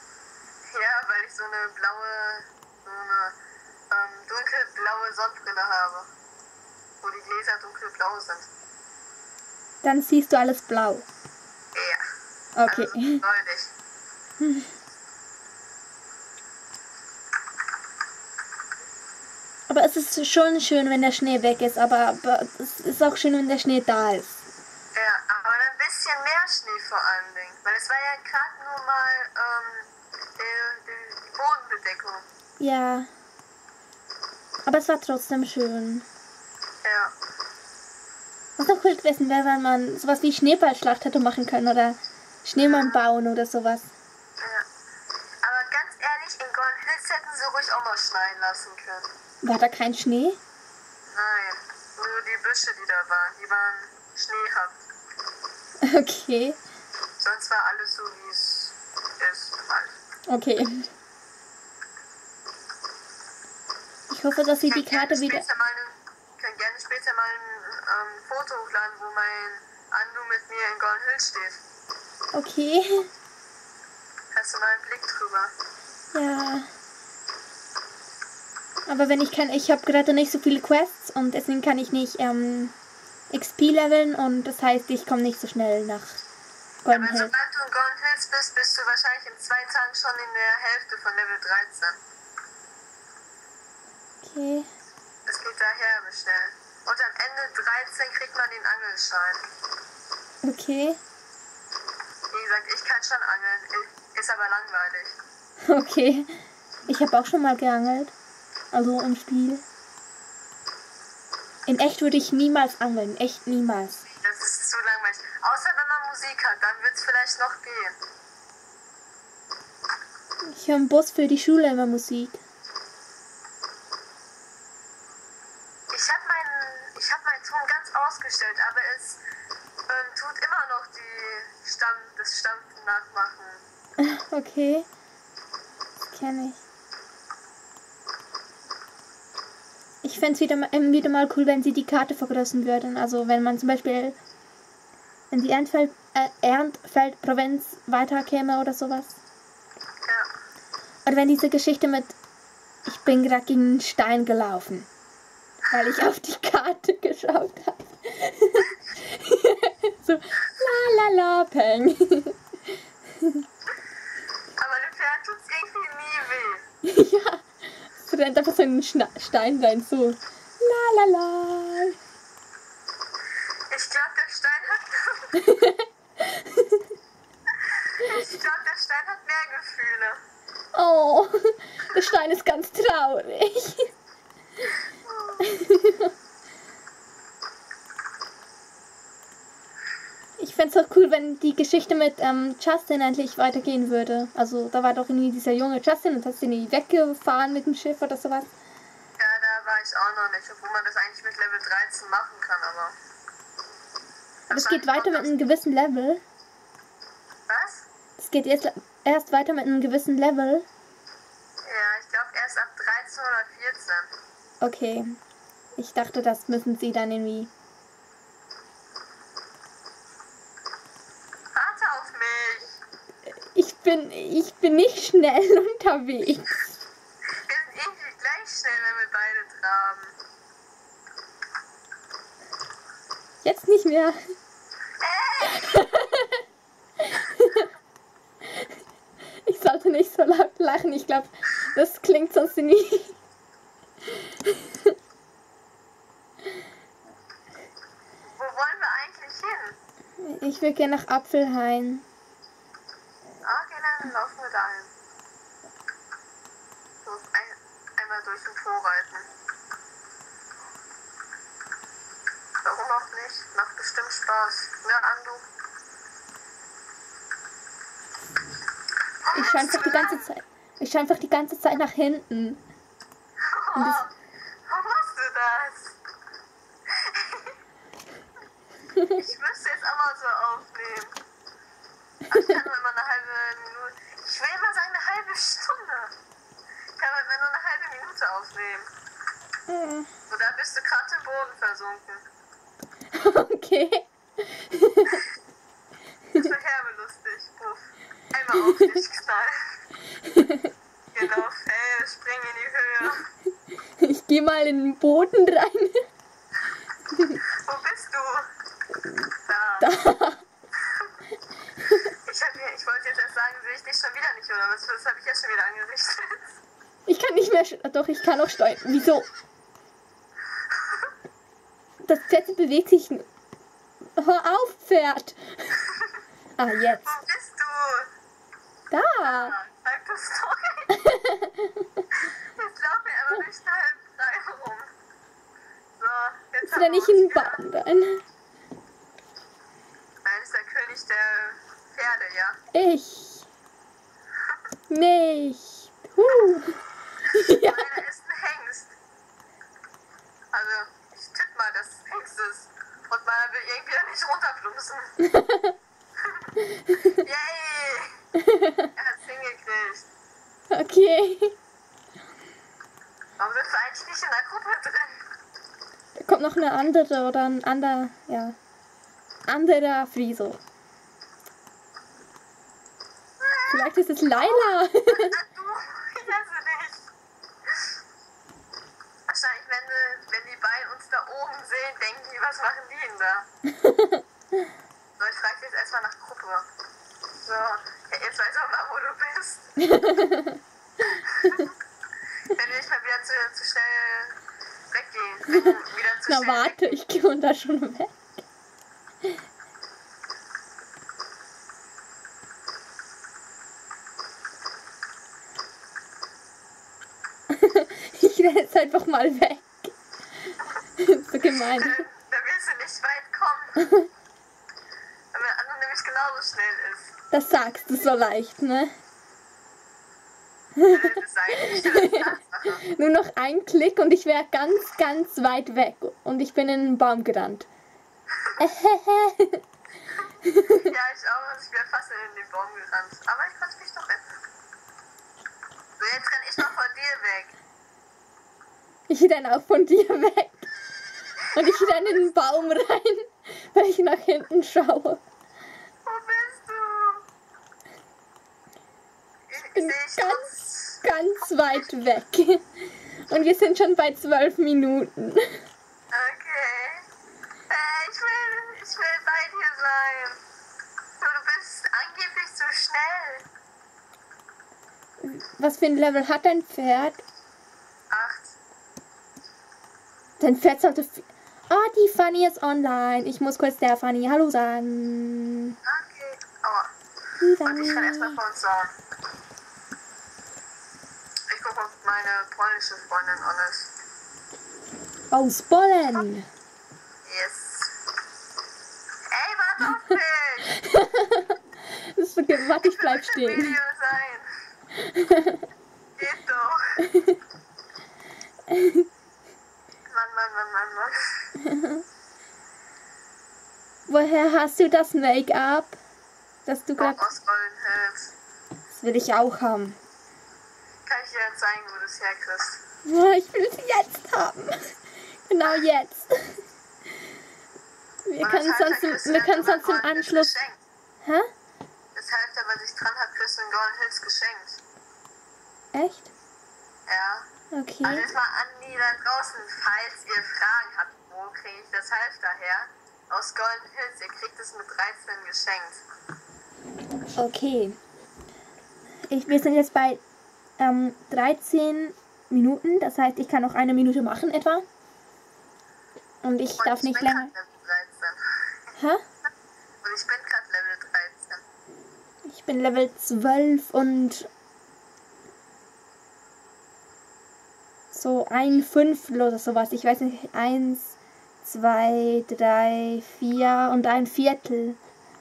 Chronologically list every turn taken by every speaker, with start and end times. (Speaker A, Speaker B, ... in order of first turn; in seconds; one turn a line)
Speaker A: 0.7-3.4
Speaker A: 3.9-6.1
Speaker A: 7.0-8.5
Speaker B: 9.8-11.1
Speaker A: 11.7-12.0
Speaker B: 12.6-13.2
Speaker A: 12.7-13.7
Speaker B: 14.4-14.7
Speaker B: 19.7-24.4
Speaker A: 24.9-32.2
Speaker B: 32.6-33.1
Speaker B: 34.6-36.1
Speaker A: 36.8-37.1
Speaker B: 38.6-43.9
Speaker A: 42.6-43.0
Speaker A: 44.4-44.6
Speaker A: 45.4-49.1
Speaker B: 49.4-50.4
Speaker A: 51.1-54.8
Speaker B: 55.8-56.6
Speaker A: 57.2-60.0
Speaker B: 60.3-60.9
Speaker B: 64.1-65.4
Speaker A: 64.7-71.6
Speaker B: 72.3-73.1
Speaker A: 74.3-75.5
Speaker B: 76.1-76.7
Speaker B: 78.9-82.7
Speaker B: 83.3-86.2
Speaker B: 86.8-87.3
Speaker A: 86.9-92.0
Speaker B: 94.2-94.7
Speaker A: 95.3-99.4
Speaker B: 100.4-101.0
Speaker A: 102.3-105.2
Speaker B: 105.7-108.1
Speaker B: 108.7-109.6
Speaker B: 111.7-114.0
Speaker A: 114.2-118.0
Speaker B: 120.5-122.4
Speaker A: 125.9-129.2
Speaker A: 129.9-133.6
Speaker B: 134.0-134.9
Speaker B: 136.0-136.6
Speaker B: 140.0-144.2
Speaker B: 145.3-149.1
Speaker B: 151.1-152.1
Speaker B: 152.8-154.9
Speaker B: 155.7-162.4
Speaker A: 164.6-166.6
Speaker B: 166.8-171.9
Speaker A: 173.7-175.3
Speaker B: 175.4-176.8
Speaker A: 178.0-180.2
Speaker B: 180.7-183.9
Speaker A: 185.1-185.4
Speaker B: 185.4-186.1
Speaker B: 190.4-198.5
Speaker A: 199.2-202.9
Speaker B: 204.5-206.2
Speaker A: 204.5-205.3
Speaker A: 207.5-207.8
Speaker B: 208.2-210.7
Speaker A: 211.7-214.1
Speaker B: 214.6-215.2
Speaker B: 215.8-217.5
Speaker A: 221.5-222.8
Speaker B: 223.5-226.7
Speaker A: 227.4-230.2
Speaker B: 233.4-234.2
Speaker A: 235.0-236.1
Speaker B: 235.5-236.4
Speaker B: 237.0-237.7
Speaker B: 239.4-243.2
Speaker B: 244.4-244.9
Speaker A: 248.3-249.8
Speaker B: 250.2-252.1
Speaker A: 253.4-254.9
Speaker A: 257.0-259.3
Speaker A: 262.6-265.4
Speaker A: 269.2-270.2
Speaker B: 269.3-272.6
Speaker A: 273.4-274.1
Speaker B: 273.8-274.0
Speaker A: 274.7-276.0
Speaker A: 276.9-277.6
Speaker A: 279.1-281.2
Speaker A: 282.3-286.1
Speaker A: 287.0-288.9
Speaker B: 289.7-290.1
Speaker A: 290.3-292.2
Speaker B: 293.1-295.2
Speaker A: 296.3-299.8
Speaker B: 300.3-300.7
Speaker A: 301.1-303.3
Speaker B: 304.0-306.0
Speaker A: 307.6-308.5
Speaker A: 309.5-309.9
Speaker B: 309.8-310.4
Speaker A: 312.2-316.6
Speaker B: 317.1-319.3
Speaker B: 322.0-323.3
Speaker B: 324.2-325.8
Speaker B: 326.6-327.1
Speaker A: 327.0-328.1
Speaker B: 328.9-329.5
Speaker A: 329.2-330.9
Speaker B: 330.9-332.0
Speaker A: 332.6-334.9
Speaker A: 336.0-337.6
Speaker B: 336.6-338.2
Speaker A: 340.2-342.6
Speaker B: 342.7-343.4
Speaker B: 344.9-348.0
Speaker A: 347.5-348.9
Speaker A: 350.5-355.1
Speaker B: 355.3-355.7
Speaker A: 356.2-356.5
Speaker A: 357.2-358.2
Speaker B: 358.5-358.9
Speaker A: 358.9-360.1
Speaker B: 360.7-361.5
Speaker A: 363.4-365.2
Speaker B: 366.1-368.6
Speaker B: 369.5-370.6
Speaker A: 373.4-377.1
Speaker B: 373.7-375.3
Speaker A: 379.3-383.5
Speaker B: 383.8-384.2
Speaker A: 385.2-386.7
Speaker A: 387.4-389.7
Speaker B: 389.8-390.6
Speaker A: 392.5-394.4
Speaker A: 394.9-397.0
Speaker B: 396.3-398.4
Speaker B: 407.5-409.9
Speaker B: 411.0-412.1
Speaker A: 411.6-413.8
Speaker B: 413.8-414.1
Speaker A: 415.3-417.1
Speaker B: 417.3-418.9
Speaker A: 420.9-422.8
Speaker B: 421.6-422.3
Speaker B: 422.8-427.7
Speaker B: 428.6-429.6
Speaker B: 430.4-430.9
Speaker A: 430.8-434.4
Speaker A: 436.0-437.5
Speaker B: 439.1-440.7
Speaker B: 441.5-445.2
Speaker A: 441.6-442.2
Speaker A: 446.0-447.2
Speaker A: 449.5-451.0
Speaker B: 449.6-450.5
Speaker B: 451.0-455.6
Speaker A: 456.1-457.0
Speaker A: 457.7-460.4
Speaker A: 461.2-463.4
Speaker B: 465.2-467.2
Speaker A: 468.1-468.5
Speaker B: 470.4-475.8
Speaker A: 475.8-476.9
Speaker B: 477.4-478.4
Speaker A: 477.6-478.9
Speaker A: 481.5-483.9
Speaker B: 485.3-486.5
Speaker A: 487.2-487.9
Speaker A: 489.3-490.7
Speaker B: 490.8-491.5
Speaker B: 492.1-493.8
Speaker A: 492.8-494.5
Speaker B: 495.0-495.6
Speaker A: 496.2-496.8
Speaker B: 497.1-497.4
Speaker B: 498.7-499.0
Speaker A: 500.1-501.1
Speaker B: 501.6-502.0
Speaker B: 504.1-506.0
Speaker B: 506.6-507.3
Speaker A: 507.0-508.3
Speaker B: 508.9-510.0
Speaker A: 511.1-512.8
Speaker B: 513.0-516.6
Speaker B: 518.2-520.5
Speaker A: 518.4-520.8
Speaker B: 521.2-521.5
Speaker A: 522.1-524.8
Speaker B: 525.9-526.3
Speaker A: 527.1-527.5
Speaker B: 527.7-528.3
Speaker A: 528.0-536.0
Speaker B: 537.4-538.0
Speaker B: 539.3-540.2
Speaker B: 540.8-544.8
Speaker B: 546.4-547.5
Speaker A: 546.8-548.4
Speaker B: 549.0-549.2
Speaker A: 550.0-551.6
Speaker B: 552.5-554.5
Speaker B: 558.1-565.0